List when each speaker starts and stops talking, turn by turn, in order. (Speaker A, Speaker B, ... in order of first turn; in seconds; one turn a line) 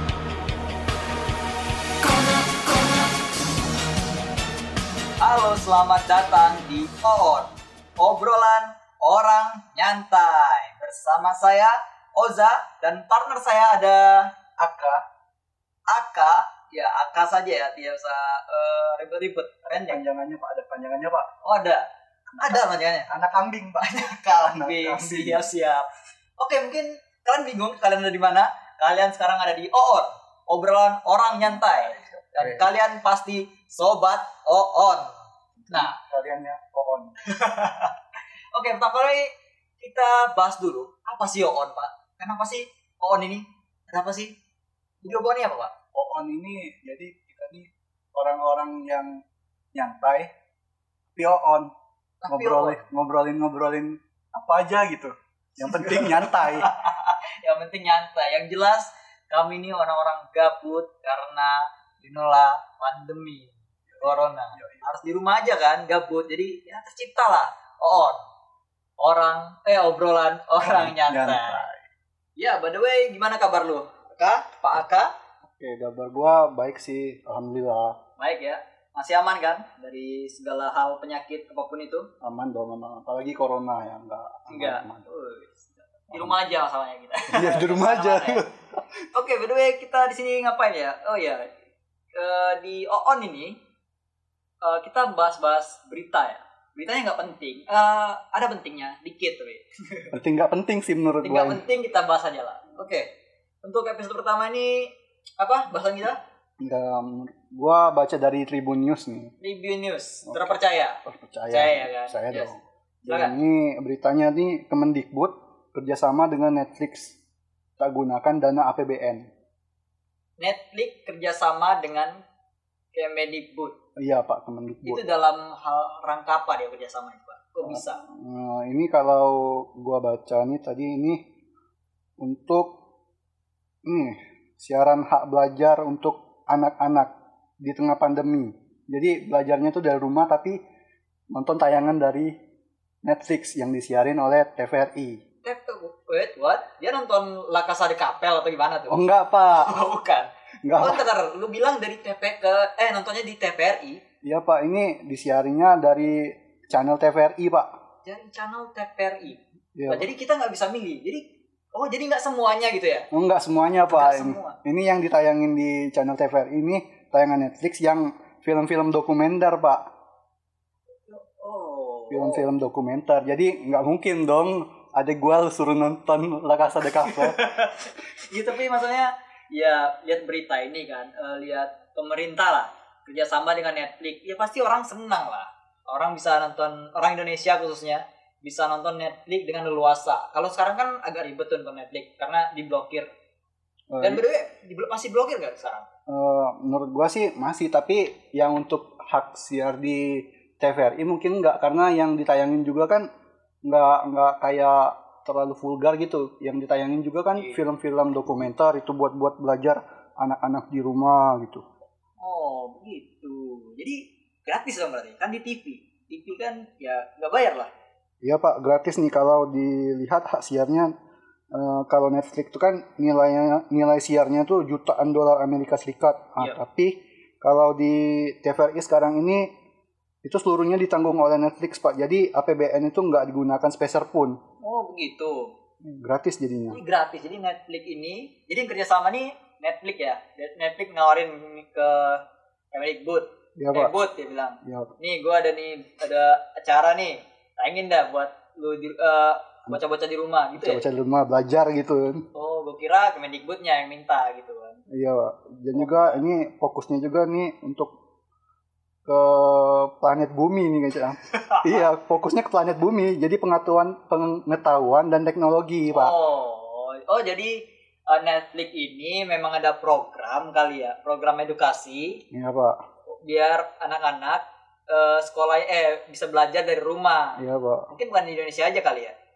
Speaker A: 5.2-14.3
Speaker B: 14.6-15.0
Speaker A: 15.9-20.0
Speaker B: 19.7-21.3
Speaker A: 21.4-21.9
Speaker A: 22.4-23.1
Speaker B: 22.4-25.4
Speaker A: 23.8-36.0
Speaker B: 31.3-32.7
Speaker B: 35.6-37.2
Speaker A: 37.2-37.9
Speaker A: 38.5-44.4
Speaker A: 45.0-45.7
Speaker B: 45.9-49.2
Speaker B: 49.7-50.3
Speaker B: 51.1-51.7
Speaker A: 52.2-52.9
Speaker B: 52.2-56.7
Speaker A: 55.7-68.2
Speaker B: 63.9-64.9
Speaker A: 69.0-71.7
Speaker B: 70.6-71.8
Speaker A: 72.4-75.1
Speaker B: 75.5-78.0
Speaker A: 78.2-82.1
Speaker B: 82.2-85.1
Speaker A: 84.5-88.5
Speaker B: 86.1-86.4
Speaker B: 87.3-88.8
Speaker A: 89.1-91.5
Speaker A: 92.1-93.6
Speaker A: 94.6-100.2
Speaker B: 100.1-101.6
Speaker A: 101.2-106.2
Speaker B: 106.6-109.3
Speaker A: 109.4-112.5
Speaker B: 110.2-117.2
Speaker A: 113.1-113.3
Speaker B: 117.8-119.3
Speaker A: 120.4-122.2
Speaker A: 122.9-123.8
Speaker B: 124.0-125.0
Speaker A: 124.8-128.0
Speaker B: 127.6-131.2
Speaker B: 132.2-132.8
Speaker B: 133.8-137.1
Speaker B: 137.6-140.6
Speaker B: 141.3-142.3
Speaker B: 143.0-145.2
Speaker A: 145.4-154.0
Speaker B: 148.9-149.8
Speaker B: 150.6-151.1
Speaker B: 154.2-157.7
Speaker A: 158.0-163.1
Speaker B: 159.8-160.1
Speaker B: 163.1-169.8
Speaker A: 163.9-164.6
Speaker A: 171.1-172.5
Speaker B: 172.1-177.4
Speaker A: 177.0-193.1
Speaker B: 193.9-194.2
Speaker A: 194.0-195.9
Speaker B: 196.1-203.1
Speaker B: 203.6-211.6
Speaker A: 207.3-207.6
Speaker A: 212.2-217.7
Speaker B: 218.2-220.9
Speaker B: 221.5-229.5
Speaker B: 230.2-234.4
Speaker A: 234.6-235.5
Speaker B: 235.8-236.8
Speaker A: 236.7-250.9
Speaker B: 243.6-243.9
Speaker B: 244.6-244.9
Speaker B: 250.6-252.2
Speaker A: 252.3-254.8
Speaker B: 254.9-257.9
Speaker A: 255.7-256.2
Speaker B: 259.1-266.2
Speaker A: 261.3-261.8
Speaker A: 265.9-272.2
Speaker B: 272.3-272.8
Speaker A: 273.1-279.1
Speaker B: 277.4-277.9